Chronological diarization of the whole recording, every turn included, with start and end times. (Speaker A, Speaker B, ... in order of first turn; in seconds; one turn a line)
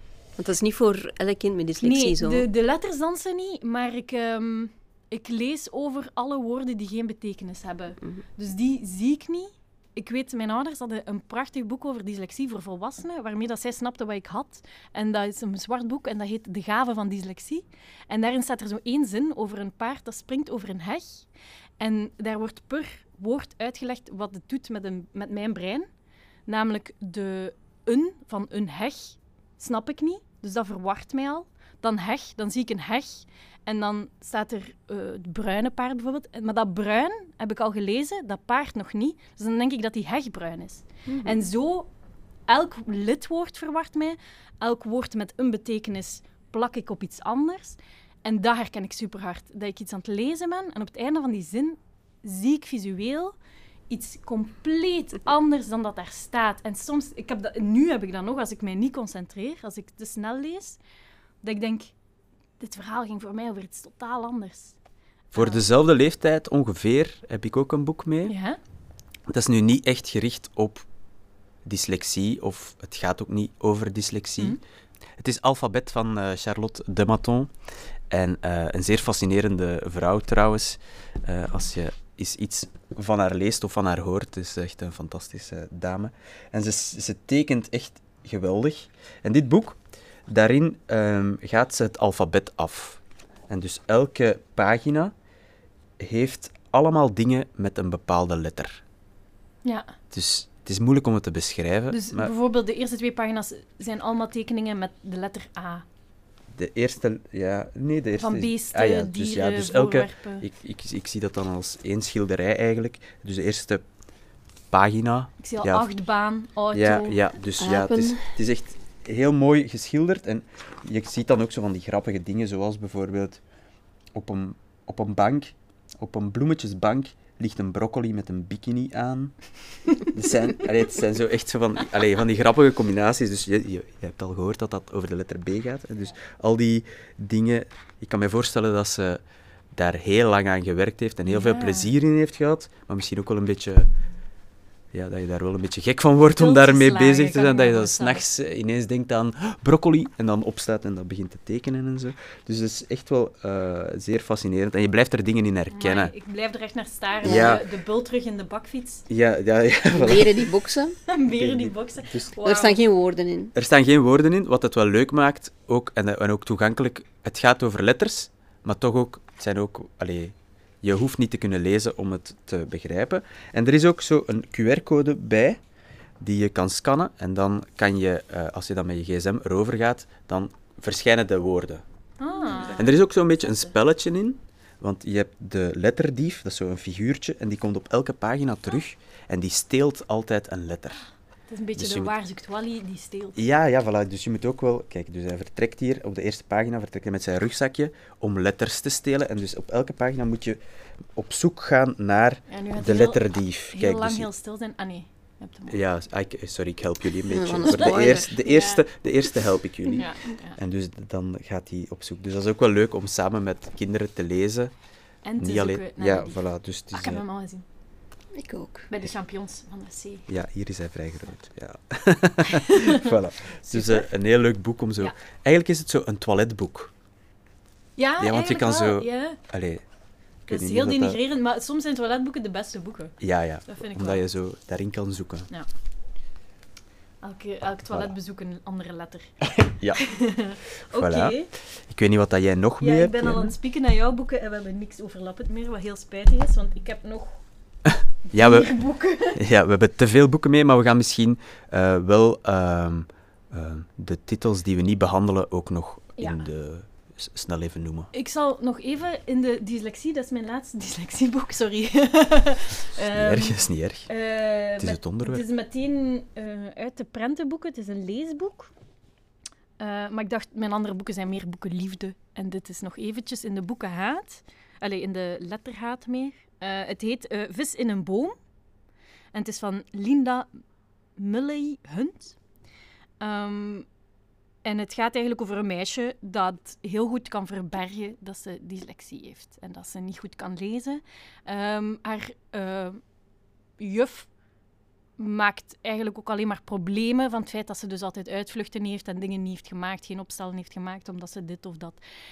Speaker A: 0.4-2.5
Speaker B: 1.8-21.3
Speaker B: 21.8-25.9
Speaker B: 26.5-41.9
Speaker A: 41.1-41.4
Speaker B: 42.5-53.4
Speaker B: 53.9-60.8
Speaker B: 61.4-61.9
Speaker B: 62.6-64.8
Speaker B: 65.3-65.6
Speaker C: 65.3-68.4
Speaker B: 68.3-68.6
Speaker C: 69.3-70.9
Speaker C: 71.6-74.6
Speaker C: 75.2-77.5
Speaker C: 78.1-95.1
Speaker C: 96.0-98.8
Speaker B: 99.6-100.0
Speaker C: 100.1-102.3
Speaker B: 101.9-105.8
Speaker C: 106.5-113.9
Speaker B: 108.2-110.5
Speaker C: 114.7-115.9
Speaker B: 115.4-117.2
Speaker C: 116.7-123.4
Speaker A: 117.6-118.3
Speaker C: 124.1-139.2
Speaker C: 139.7-143.9
Speaker B: 141.3-141.9
Speaker C: 144.9-156.1
Speaker B: 146.3-148.2
Speaker B: 155.7-159.1
Speaker C: 157.2-157.7
Speaker A: 157.2-157.6
Speaker C: 159.1-160.5
Speaker A: 159.9-161.0
Speaker B: 161.1-162.8
Speaker C: 161.3-162.3
Speaker A: 162.4-163.5
Speaker C: 163.5-175.6
Speaker C: 176.2-181.8
Speaker B: 182.2-183.0
Speaker C: 182.7-191.1
Speaker B: 191.5-193.4
Speaker C: 191.8-192.1
Speaker C: 193.3-200.6
Speaker C: 201.2-204.3
Speaker B: 202.5-205.8
Speaker C: 205.7-214.7
Speaker A: 207.3-208.4
Speaker B: 207.7-208.8
Speaker B: 209.9-210.6
Speaker B: 215.2-216.4
Speaker C: 215.4-217.2
Speaker B: 216.9-217.6
Speaker A: 218.3-218.9
Speaker B: 218.9-220.3
Speaker C: 220.3-226.9
Speaker B: 223.7-224.1
Speaker B: 228.0-229.4
Speaker C: 228.2-229.9
Speaker C: 230.4-231.2
Speaker B: 230.5-234.2
Speaker C: 233.2-235.5
Speaker B: 237.2-239.5
Speaker C: 239.6-240.3
Speaker B: 240.0-241.5
Speaker C: 240.9-243.5
Speaker B: 242.8-247.4
Speaker C: 247.9-258.1
Speaker B: 248.3-249.4
Speaker B: 258.1-268.7
Speaker C: 263.0-264.1
Speaker C: 264.8-265.4
Speaker B: 269.8-278.4
Speaker B: 279.3-280.5
Speaker B: 281.2-282.4
Speaker B: 283.2-283.9
Speaker B: 284.6-293.0
Speaker B: 293.8-294.3
Speaker B: 295.2-302.0